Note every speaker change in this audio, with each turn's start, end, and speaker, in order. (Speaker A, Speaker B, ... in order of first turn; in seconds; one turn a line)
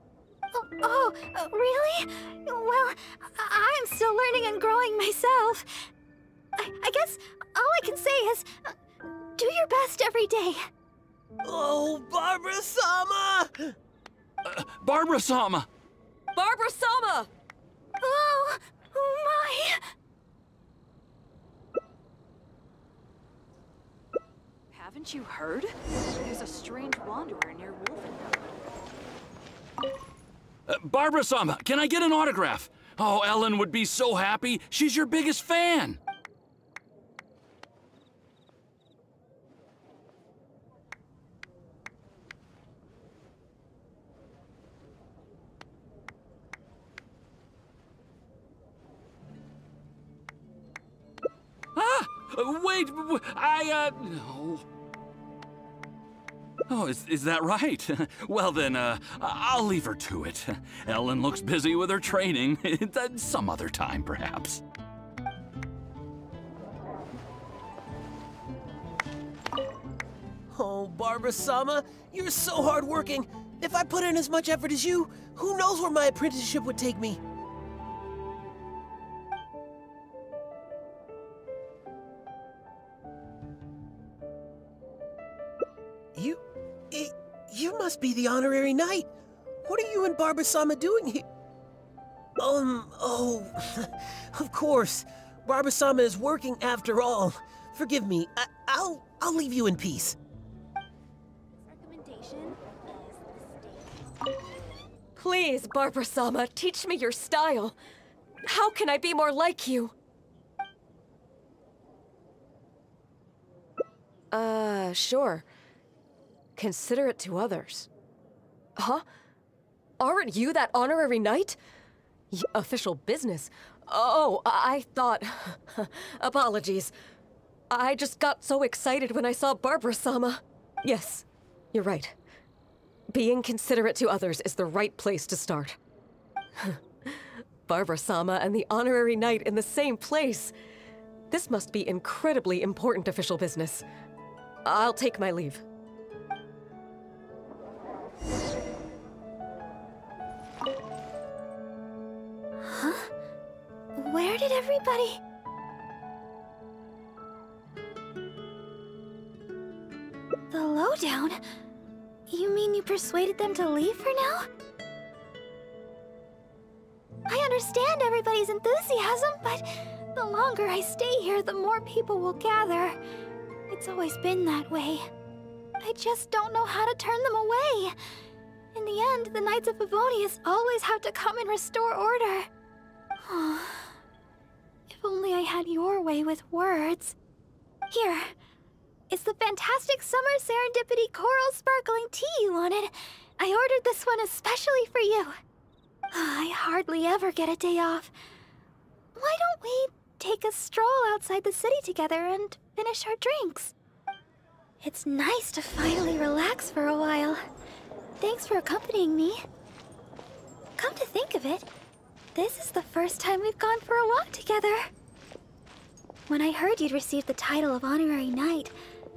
Speaker A: 0.5-5.9
Speaker A: 6.6-8.7
Speaker A: 9.4-10.7
Speaker B: 11.4-13.8
Speaker C: 14.4-15.7
Speaker D: 16.4-17.3
Speaker A: 18.0-19.8
Speaker E: 24.7-28.3
Speaker C: 30.7-36.0
Speaker C: 51.8-54.6
Speaker C: 56.7-64.6
Speaker B: 70.5-77.2
Speaker B: 86.2-89.1
Speaker B: 89.6-91.2
Speaker B: 92.4-100.2
Speaker E: 102.0-102.5
Speaker D: 105.2-107.8
Speaker D: 108.5-109.9
Speaker D: 114.3-115.5
Speaker D: 116.6-117.9
Speaker D: 118.8-119.0
Speaker D: 120.0-121.6
Speaker D: 122.3-126.9
Speaker D: 127.7-132.1
Speaker D: 133.1-135.8
Speaker D: 136.6-140.5
Speaker D: 141.3-143.8
Speaker D: 144.7-145.6
Speaker A: 152.6-153.1
Speaker A: 154.0-155.2
Speaker A: 160.5-161.4
Speaker A: 162.3-164.5
Speaker A: 167.3-173.0
Speaker A: 173.7-175.1
Speaker A: 175.8-177.9
Speaker A: 178.7-182.5
Speaker A: 183.2-183.9
Speaker A: 184.9-187.2
Speaker A: 187.9-188.3
Speaker A: 189.1-195.3
Speaker A: 196.1-198.1
Speaker A: 199.2-203.7
Speaker A: 204.8-207.4
Speaker A: 208.2-209.4
Speaker A: 210.8-211.7
Speaker A: 212.3-214.9
Speaker A: 216.3-218.7